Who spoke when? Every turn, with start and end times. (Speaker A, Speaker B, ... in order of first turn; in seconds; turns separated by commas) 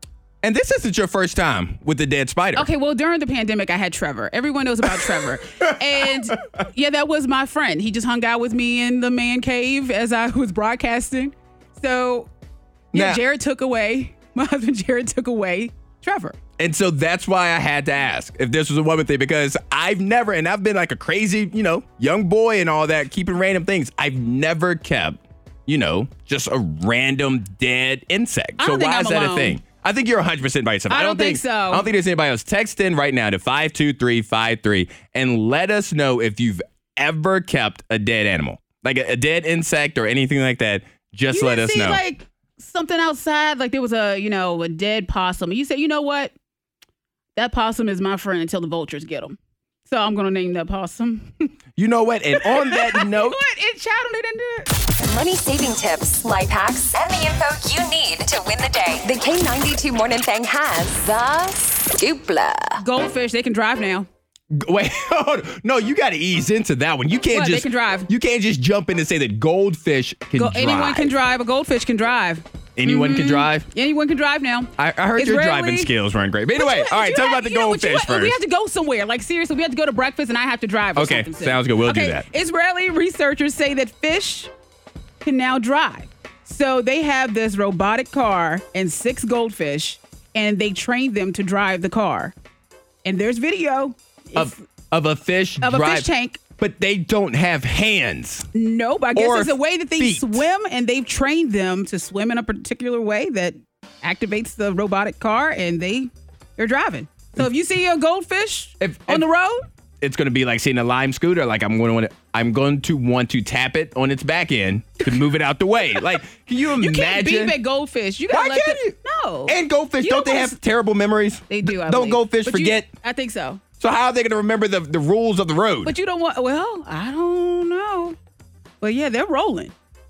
Speaker A: 0.4-2.7, Speaker B: 2.5-12.3, Speaker A: 4.9-6.1, Speaker A: 12.9-13.2, Speaker B: 12.9-16.4, Speaker A: 16.6-42.0, Speaker B: 28.6-29.6, Speaker B: 30.9-31.9, Speaker B: 41.3-46.3, Speaker B: 47.4-51.5, Speaker A: 51.8-53.4, Speaker B: 52.3-54.7, Speaker C: 55.0-62.8, Speaker B: 62.8-64.1, Speaker A: 64.5-71.1, Speaker B: 67.3-68.1, Speaker B: 70.3-75.9, Speaker A: 72.8-73.7, Speaker A: 74.8-78.4, Speaker B: 76.5-84.5, Speaker A: 80.9-82.3, Speaker B: 85.2-92.3, Speaker B: 93.0-94.6, Speaker A: 94.3-98.5, Speaker B: 95.6-96.4, Speaker B: 98.5-109.7, Speaker A: 99.1-100.4, Speaker A: 108.8-109.2, Speaker A: 110.0-117.6, Speaker B: 116.8-120.6, Speaker A: 118.3-119.0, Speaker A: 119.5-122.9, Speaker B: 121.5-123.6, Speaker A: 123.8-125.9, Speaker B: 125.8-128.2, Speaker B: 128.8-129.7